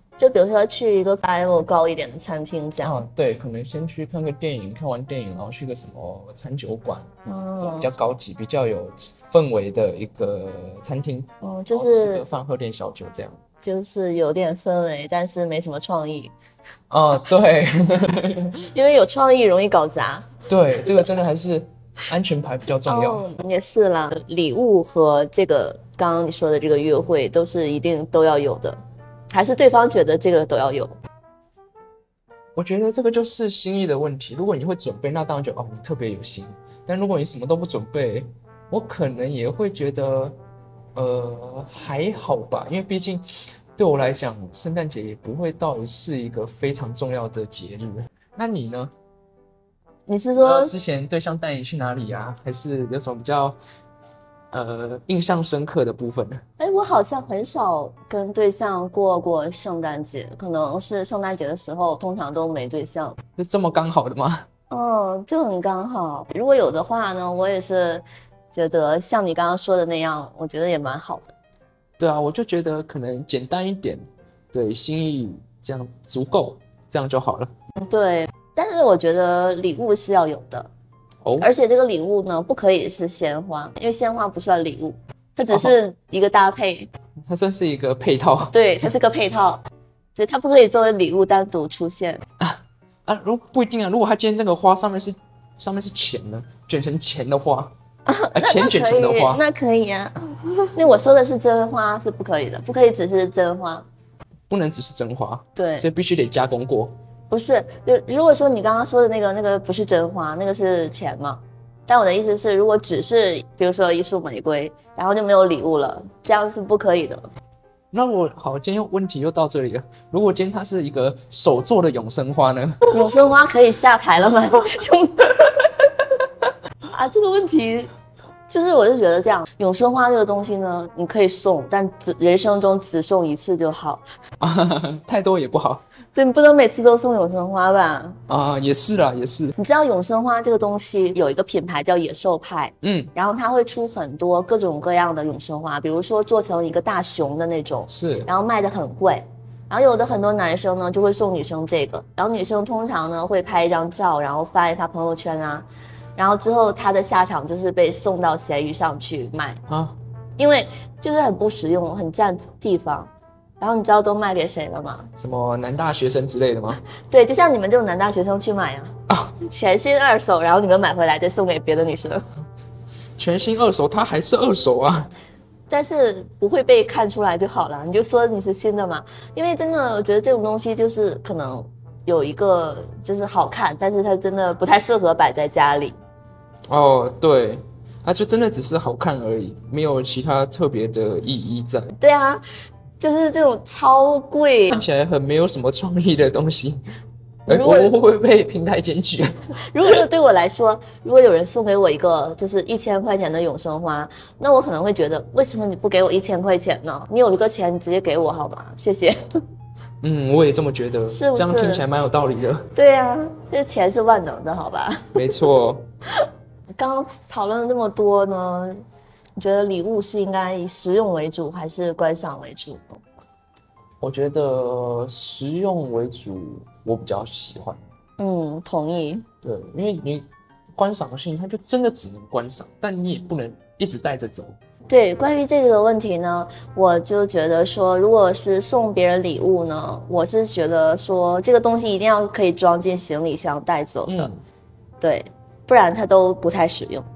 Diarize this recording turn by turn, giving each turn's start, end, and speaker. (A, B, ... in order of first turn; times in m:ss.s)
0:00.2-0:03.0 A
0:02.8-0:13.4 B
0:07.2-0:07.9 A
0:11.4-0:12.2 A
0:13.6-0:16.3 A
0:16.9-0:18.5 B
0:18.6-0:20.3 A
0:20.5-0:23.2 B
0:22.8-0:28.8 A
0:29.3-0:30.9 A
0:32.6-0:40.4 B
0:40.9-0:43.2 B
0:43.8-0:48.9 B
0:50.1-0:50.7 A
0:50.4-0:53.6 B
0:54.5-0:56.4 B
0:56.6-1:03.2 A
1:03.4-1:04.4 B
1:04.7-1:11.3 A
1:12.0-1:17.5 B
1:17.8-1:20.7 A
1:21.2-1:21.5 B
1:21.4-1:26.9 A
1:27.3-1:28.5 B
1:28.5-1:29.6 A
1:30.1-1:32.2 A
1:32.4-1:37.7 B
1:38.0-1:43.8 A
1:38.3-1:39.4 B
1:44.5-1:46.9 B
1:45.6-1:45.9 A
1:47.3-1:57.3 A
1:57.9-2:03.0 B
2:02.9-2:05.6 A
2:06.9-2:07.9 A
2:08.5-2:14.0 A
2:14.4-2:15.8 B
2:16.1-2:18.2 A
2:18.3-2:19.5 B
2:19.6-2:35.6 A
2:22.8-2:23.1 B
2:27.9-2:28.3 B
2:36.2-2:39.6 A
2:39.7-2:40.0 B
2:40.4-2:45.1 A
2:45.2-2:46.8 B
2:47.0-2:52.2 A
2:49.1-2:49.3 B
2:53.2-2:55.1 B
2:55.7-3:06.0 A
3:06.7-3:11.9 B
3:12.0-3:14.8 A
3:14.7-3:16.8 B
3:17.4-3:19.5 B
3:17.5-3:18.0 A
3:19.7-3:29.4 A
3:30.0-3:32.7 B
3:31.1-3:31.8 A
3:32.7-3:35.2 A
3:35.1-3:35.8 B
3:36.7-3:38.8 A
3:39.4-3:43.0 A
3:44.0-3:47.8 B
3:48.2-3:49.2 A
3:49.4-3:54.6 B
3:54.9-4:04.3 A
4:04.0-4:04.4 B
4:05.0-4:07.0 A